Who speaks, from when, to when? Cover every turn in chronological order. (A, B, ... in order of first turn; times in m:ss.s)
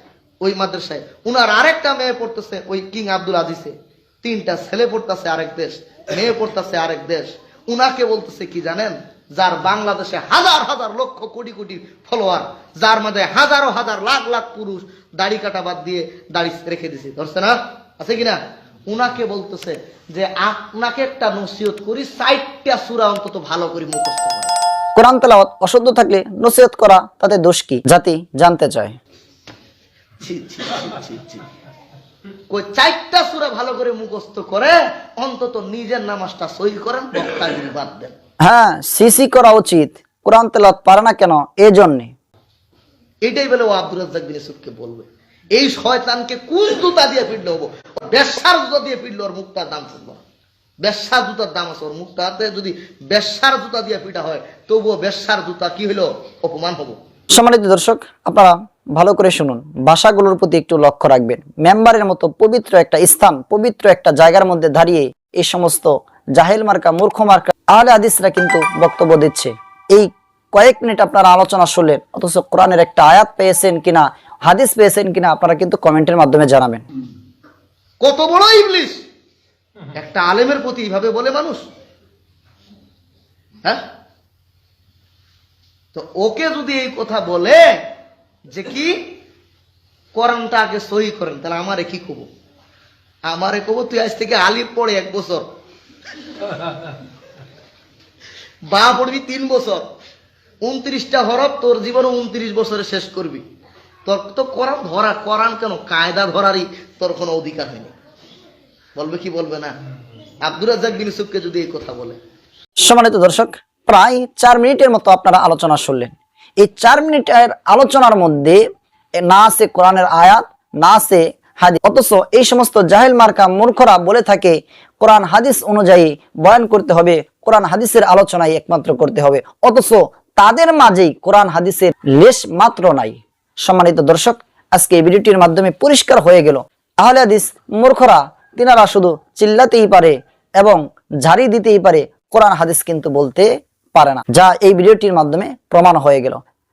0:00.4-0:24.6 A
0:25.0-0:29.0 B
0:30.2-0:31.4 A
0:32.5-0:38.1 A
0:38.4-0:42.1 B
0:43.2-0:50.2 A
0:50.8-0:57.0 A
0:57.3-1:16.8 B
1:18.0-1:19.0 A
1:19.9-1:21.6 A
1:25.9-1:27.8 A
1:28.5-1:29.2 A
1:30.1-1:32.3 A
1:33.2-1:35.5 A
1:38.7-1:39.8 A
1:40.6-1:43.4 A
1:44.1-1:47.9 A
1:48.9-1:49.8 A
1:50.4-1:52.2 A
1:52.8-1:58.6 B
1:59.2-2:26.4 B